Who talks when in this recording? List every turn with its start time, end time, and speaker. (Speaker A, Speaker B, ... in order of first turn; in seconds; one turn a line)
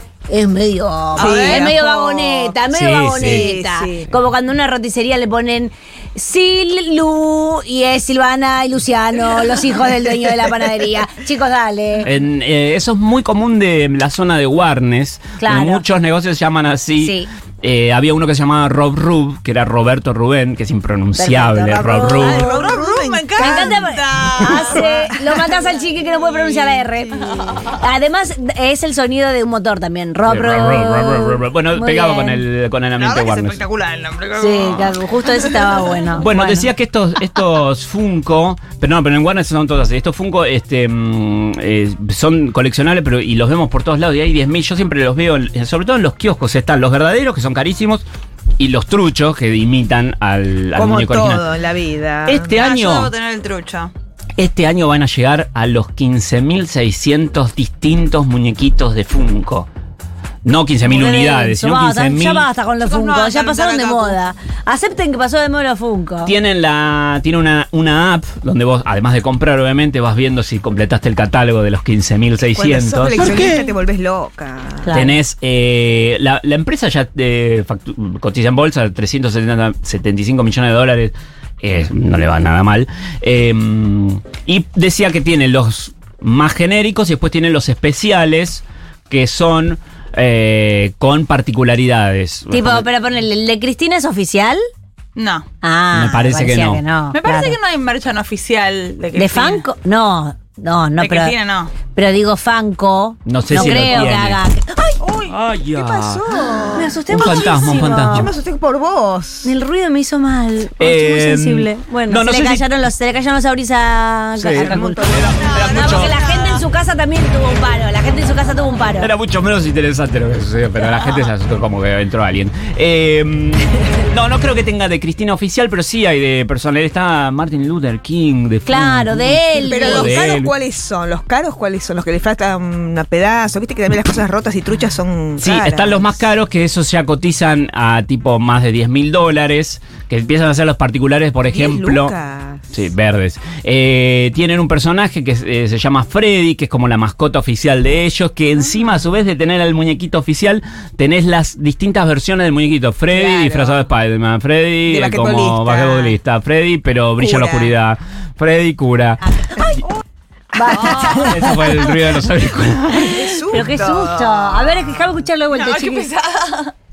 Speaker A: 0.3-12.1
Speaker B: 1.1-1.8
Speaker C: 1.2-2.6
Speaker D: 2.7-3.5
Speaker C: 3.2-4.1
Speaker D: 12.0-22.4
Speaker A: 15.4-15.8
Speaker A: 17.0-17.3
Speaker A: 21.1-22.8
Speaker C: 22.1-27.3
Speaker B: 22.3-25.5
Speaker A: 23.4-32.4
Speaker B: 26.2-26.5
Speaker D: 30.3-33.6
Speaker B: 33.0-36.0
Speaker A: 34.4-36.7
Speaker D: 36.2-48.0
Speaker D: 48.6-51.5
Speaker C: 50.7-52.5
Speaker D: 52.2-53.1
Speaker B: 52.5-53.9
Speaker D: 54.4-59.7
Speaker D: 60.4-62.5
Speaker A: 60.8-66.3
Speaker B: 62.8-64.2
Speaker D: 66.2-73.4
Speaker C: 72.5-75.0
Speaker A: 74.8-75.2
Speaker D: 74.9-92.9
Speaker A: 92.5-94.6
Speaker B: 95.2-95.5
Speaker A: 95.6-97.5
Speaker D: 95.9-96.8
Speaker B: 97.1-99.7
Speaker A: 99.2-101.3
Speaker B: 101.0-101.7
Speaker A: 101.9-105.0
Speaker D: 103.2-104.4
Speaker B: 103.5-104.1
Speaker B: 105.0-105.4
Speaker D: 105.3-106.2
Speaker C: 105.7-109.5
Speaker A: 106.7-108.3
Speaker D: 107.1-108.3
Speaker A: 109.4-119.1
Speaker D: 110.8-112.7
Speaker D: 114.4-116.2
Speaker C: 114.5-115.6
Speaker B: 115.3-116.6
Speaker D: 119.0-130.5
Speaker A: 128.7-130.2
Speaker C: 129.5-136.3
Speaker D: 135.4-142.1
Speaker C: 141.5-142.9
Speaker D: 142.7-159.2
Speaker C: 153.1-153.9
Speaker C: 154.9-156.2
Speaker C: 157.2-157.7
Speaker A: 160.5-161.8
Speaker B: 160.7-161.3
Speaker D: 161.1-163.1
Speaker C: 162.9-164.7
Speaker A: 163.5-166.1
Speaker B: 165.5-166.7